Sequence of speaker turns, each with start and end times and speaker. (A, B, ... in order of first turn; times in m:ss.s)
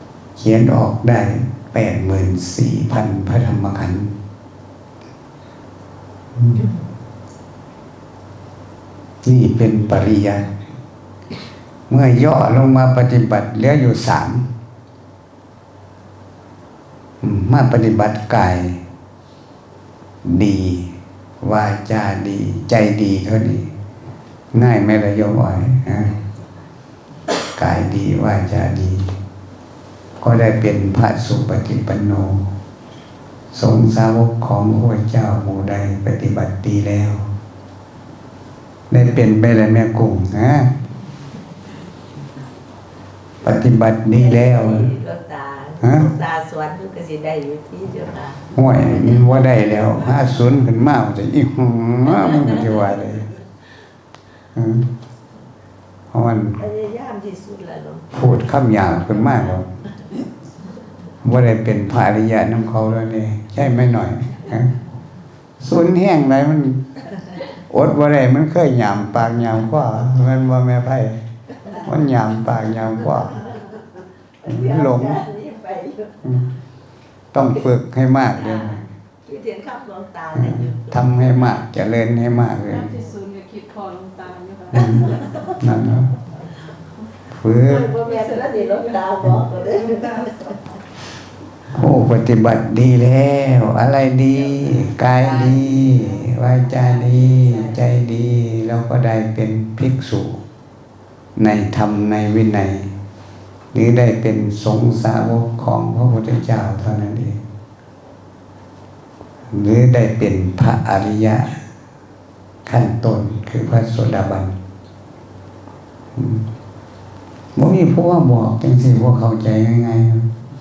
0:00.4-0:04.1 A
0:09.2-0:10.5 A
0:11.9-0:14.5 A
0:17.2-0:18.8 A
0:20.2-0:23.7 A
0:24.5-0:26.2 A
0:27.6-0:29.1 A
0:30.2-0:32.5 A
0:33.5-0:37.2 A
0:38.9-0:40.7 A
0:43.4-0:44.9 A
0:44.1-0:49.4 B
0:45.8-0:46.1 A
0:48.5-0:53.3 A
0:52.2-0:52.6 B
0:54.6-0:54.9 A
0:56.1-0:56.6 A
0:56.6-0:58.2 B
0:58.1-0:59.7 A
0:58.8-0:59.6 B
1:01.2-1:04.8 A
1:05.6-1:06.9 A
1:07.5-1:13.5 A
1:14.4-1:16.2 B
1:14.4-1:15.2 A
1:17.3-1:18.8 A
1:18.4-1:21.6 B
1:20.4-1:23.0 A
1:22.6-1:25.5 C
1:24.7-1:26.2 A
1:24.8-1:25.4 B
1:27.3-1:27.9 A
1:27.6-1:30.8 B
1:28.0-1:30.5 C
1:31.7-1:40.4 A
1:41.4-1:42.9 A
1:43.7-1:47.4 A
1:49.5-1:51.6 A
1:52.7-1:54.6 A
1:56.2-1:56.4 A
1:57.6-2:00.3 A